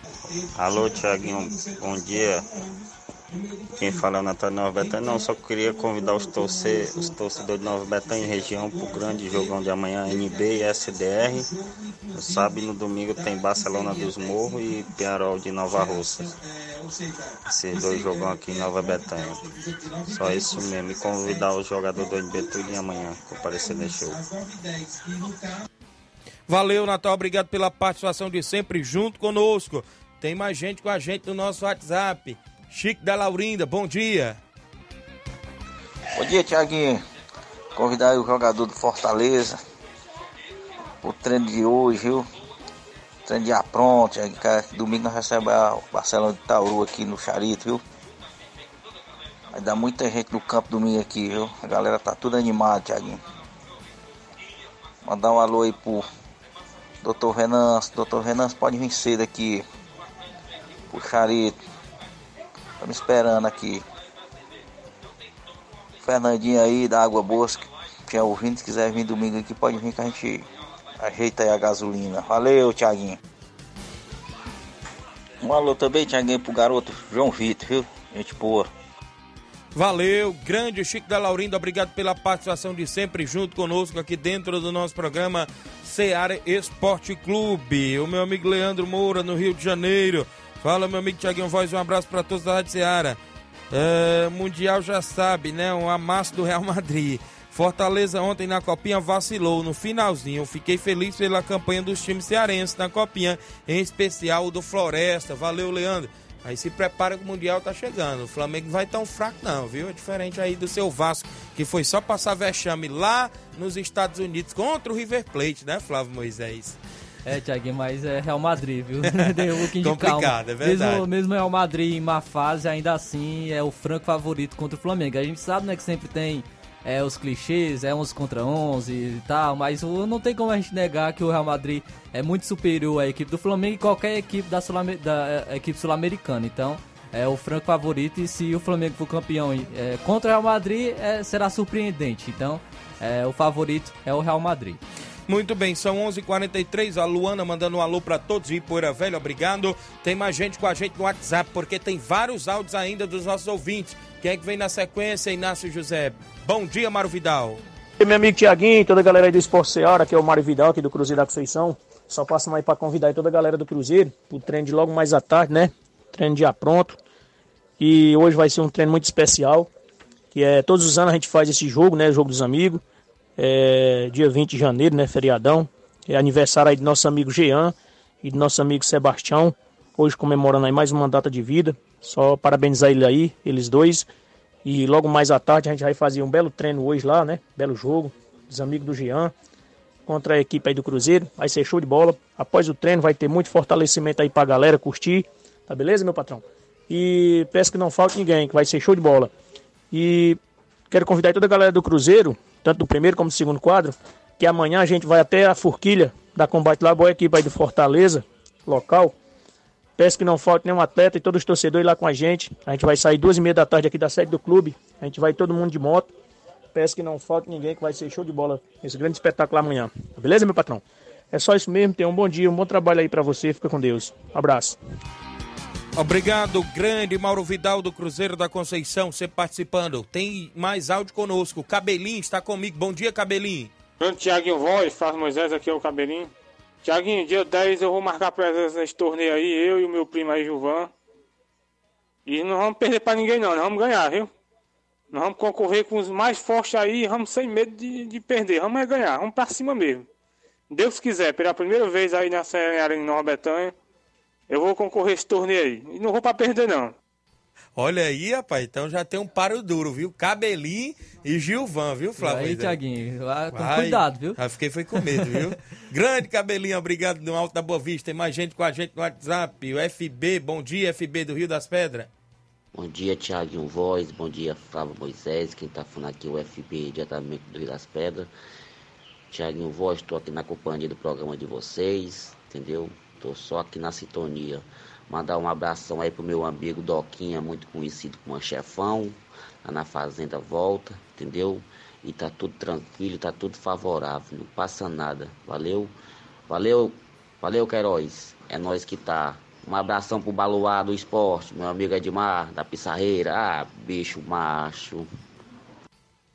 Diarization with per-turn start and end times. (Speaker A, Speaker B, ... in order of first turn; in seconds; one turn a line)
Speaker A: 0.6-2.5
Speaker A: 3.8-11.5
Speaker B: 11.7-12.2
Speaker A: 12.2-16.4
Speaker B: 13.8-14.4
Speaker A: 17.5-19.4
Speaker A: 20.1-24.2
Speaker B: 24.6-25.6
Speaker B: 26.5-34.4
Speaker C: 36.1-37.0
Speaker C: 37.8-39.6
Speaker C: 41.0-42.3
Speaker C: 43.3-47.8
Speaker C: 49.5-53.2
Speaker C: 55.1-56.1
Speaker C: 57.0-59.6
Speaker C: 60.9-61.6
Speaker C: 62.8-63.8
Speaker C: 66.0-70.5
Speaker C: 71.0-73.2
Speaker C: 75.4-78.7
Speaker B: 79.8-93.2
Speaker B: 93.7-116.8
Speaker D: 117.3-144.8
Speaker B: 119.0-121.0
Speaker B: 145.3-157.6
Speaker E: 158.0-167.0
Speaker E: 167.8-169.7
Speaker E: 170.3-172.8
Speaker E: 173.4-184.1
Speaker E: 184.7-189.3
Speaker E: 190.1-199.3
Speaker E: 199.9-200.4
Speaker E: 200.9-209.2
Speaker E: 210.0-216.1
Speaker E: 216.8-224.8
Speaker B: 226.0-233.7
Speaker F: 234.0-236.3
Speaker F: 236.8-240.9
Speaker F: 242.3-244.3
Speaker F: 245.1-250.1
Speaker F: 250.7-253.7
Speaker F: 254.5-256.9
Speaker B: 257.8-262.8
Speaker D: 262.2-264.4
Speaker B: 263.5-272.1
Speaker G: 272.8-278.3
Speaker G: 279.3-295.9
Speaker G: 296.5-305.1